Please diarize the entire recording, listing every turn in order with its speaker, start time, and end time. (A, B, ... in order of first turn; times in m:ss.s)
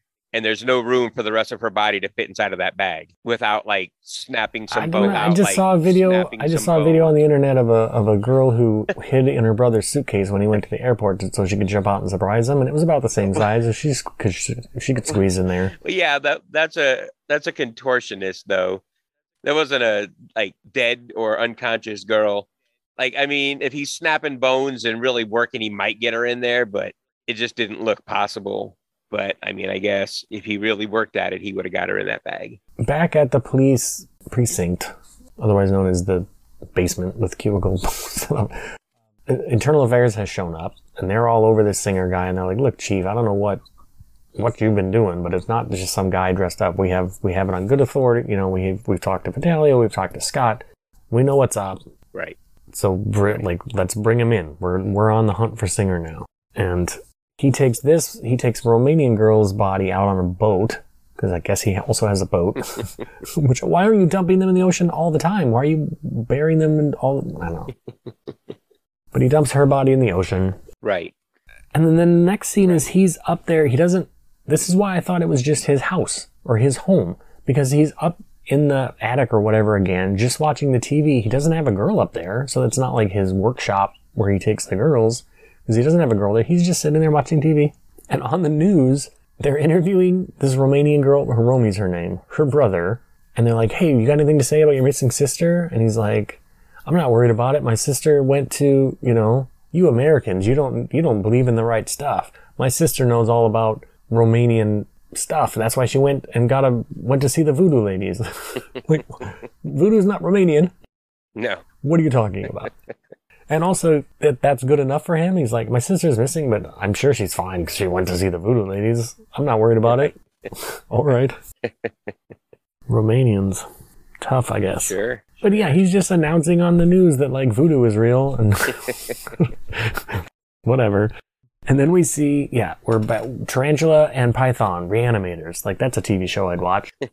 0:00.3-0:07.2 A
0:04.7-0:15.7 B
0:15.8-0:18.8 A
0:19.4-0:22.4 A
0:23.0-0:32.6 A
0:32.8-0:38.7 B
0:39.3-0:43.6 B
0:44.3-0:51.8 B
0:52.7-1:07.7 B
1:09.1-1:10.6 B
1:10.8-1:11.1 A
1:11.7-1:50.7 B
1:51.4-1:51.6 A
1:51.8-1:52.7 B
1:53.5-2:01.4 B
2:01.6-2:02.1 A
2:02.9-2:03.6 B
2:04.2-2:11.1 B
2:04.8-2:05.8 A
2:11.6-2:16.9 B